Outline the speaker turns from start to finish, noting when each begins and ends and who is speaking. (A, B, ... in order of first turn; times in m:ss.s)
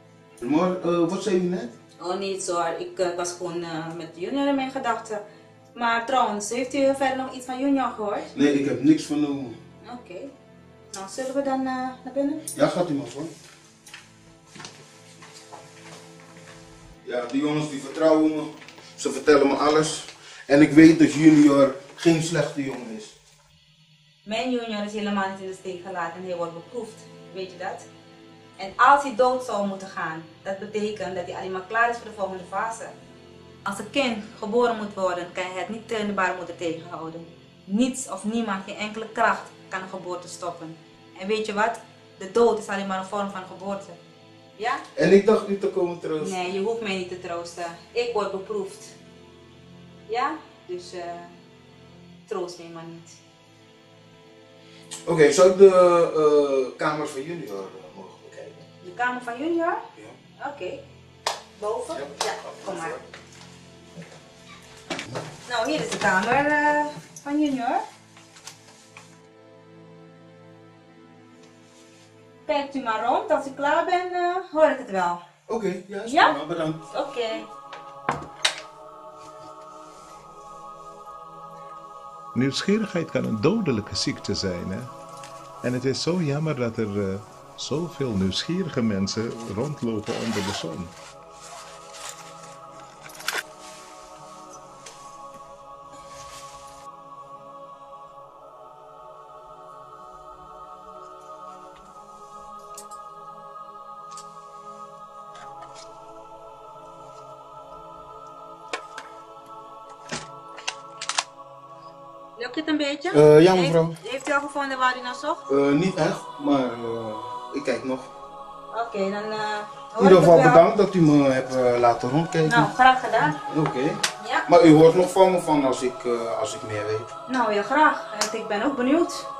0:00.4-0:01.7 A
0:02.0-0:05.2 B
0:05.7-0:08.3 B
0:08.3-0:09.6 A
0:09.8-0:10.3 B
0:10.9-0:12.4 B
0:12.5-0:13.3 A
0:17.0-0:23.1 A
0:24.2-0:27.8 B
0:28.6-0:32.9 B
0:33.6-0:44.0 B
0:44.6-0:44.8 B
0:45.0-0:46.3 A
0:46.2-0:48.9 B
0:50.1-0:51.3 B
0:52.3-0:53.2 B
0:55.1-0:58.6 A
0:58.8-0:59.8 B
1:00.4-1:00.8 B
1:01.6-1:03.0 B
1:05.5-1:07.8 B
1:12.4-1:15.2 B
1:15.5-1:16.8 A
1:16.0-1:16.4 B
1:16.9-1:17.5 B
1:22.3-1:24.9 C
1:25.6-1:30.9 C
1:52.4-1:55.4 B
1:53.1-1:53.9 A
1:55.5-1:58.1 A
1:58.7-2:00.6 B
2:00.0-2:02.7 A
2:02.4-2:03.4 B
2:03.5-2:04.0 A
2:04.2-2:04.5 B
2:04.5-2:07.1 A
2:07.3-2:09.2 B